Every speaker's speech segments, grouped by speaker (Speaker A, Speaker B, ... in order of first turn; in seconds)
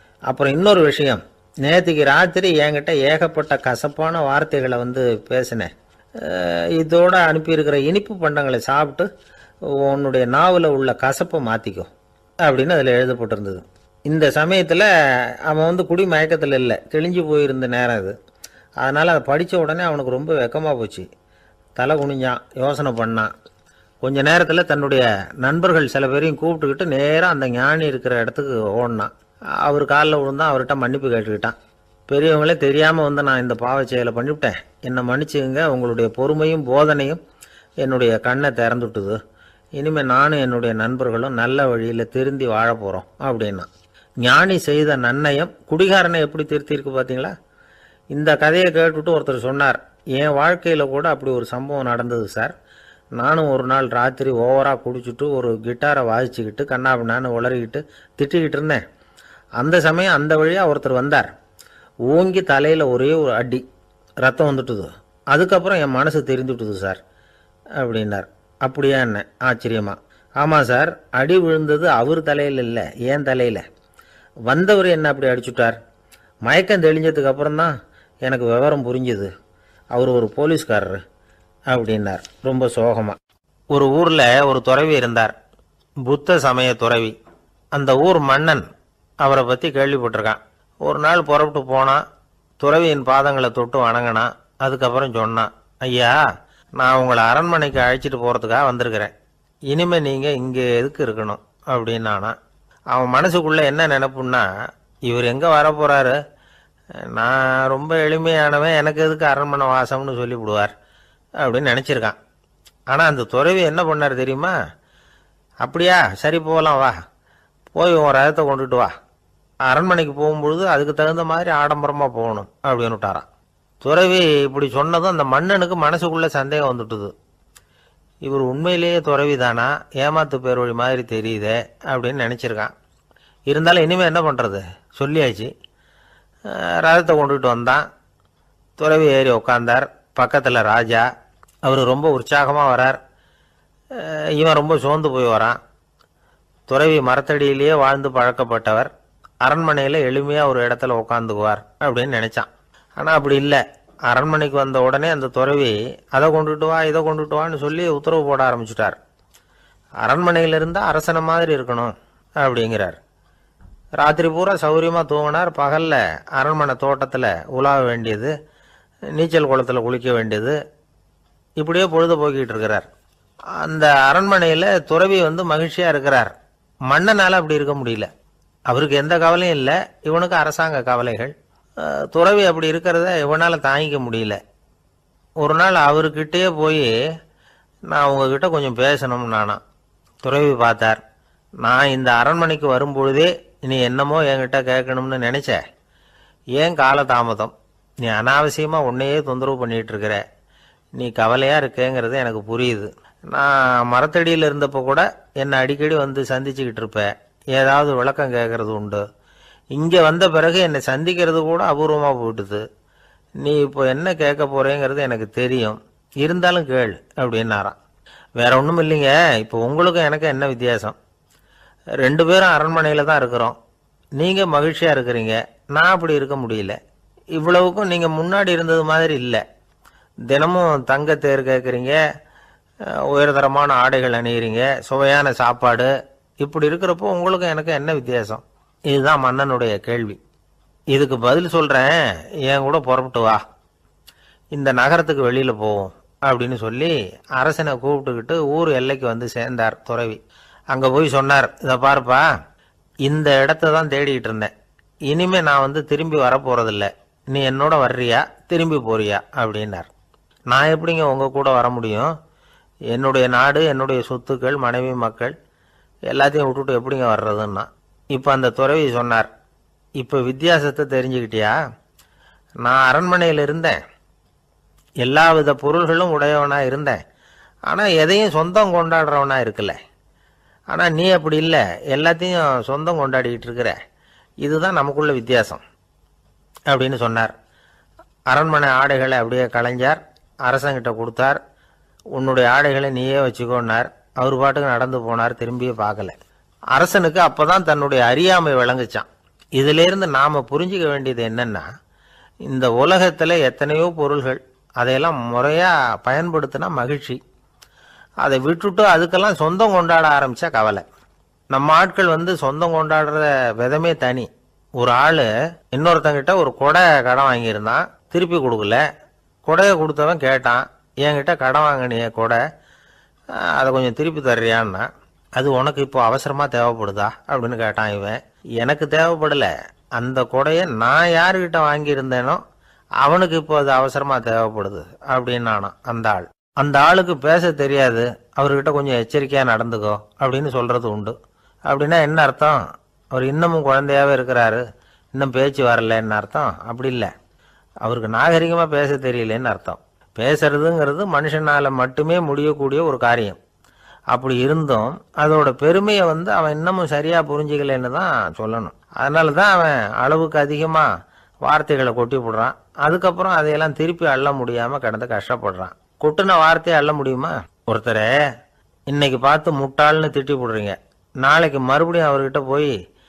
Speaker A: 0.3-9.1, 9.7-11.9, 12.4-14.9, 15.5-18.1, 18.8-21.1, 21.8-23.3, 24.0-31.5, 32.1-37.2, 37.8-39.2, 39.8-43.7, 44.2-47.3, 48.1-52.5, 53.2-58.8, 59.6-61.3, 62.1-63.6, 64.2-67.0, 67.8-73.6, 74.5-75.8, 76.5-79.3, 79.9-81.0, 81.7-83.2, 83.7-85.3, 86.0-87.1, 87.7-88.6, 89.2-92.0, 92.6-96.2, 96.8-99.1, 99.7-102.3, 102.9-104.5, 105.1-106.2, 107.0-110.7, 111.4-112.2, 112.9-114.5, 115.6-116.9, 117.7-118.9, 119.7-123.2, 123.8-127.1, 128.2-132.7, 133.5-135.5, 136.5-137.8, 138.8-141.1, 141.6-143.0, 143.9-145.6, 146.7-148.9, 149.4-159.0, 160.0-163.0, 164.0-168.3, 169.1-170.6, 171.6-172.8, 173.6-176.3, 176.9-178.1, 178.7-184.4, 185.4-186.9, 187.9-189.6, 190.2-191.0, 191.6-195.6, 196.6-197.5, 198.0-200.2, 201.0-209.0, 209.7-212.6, 213.4-217.8, 218.4-220.9, 222.0-223.5, 224.2-226.8, 227.3-229.4, 230.3-232.0, 233.1-240.2, 240.9-243.4, 244.5-252.3, 253.0-254.5, 255.1-259.9, 260.5-262.1, 262.9-265.3, 266.1-269.3, 270.0-271.5, 272.6-273.8, 275.0-277.0, 277.7-279.8, 280.7-283.8, 284.4-285.6, 286.7-287.3, 288.3-291.4, 292.1-296.1, 296.7-299.1, 299.6-301.7, 302.4-307.2, 308.2-310.8, 311.5-318.8, 319.4-322.4, 323.4-324.9, 325.4-332.4, 333.0-341.1, 341.7-342.6, 343.1-344.6, 345.1-347.1, 347.8-353.4, 354.1-360.9, 361.4-368.2, 368.9-372.7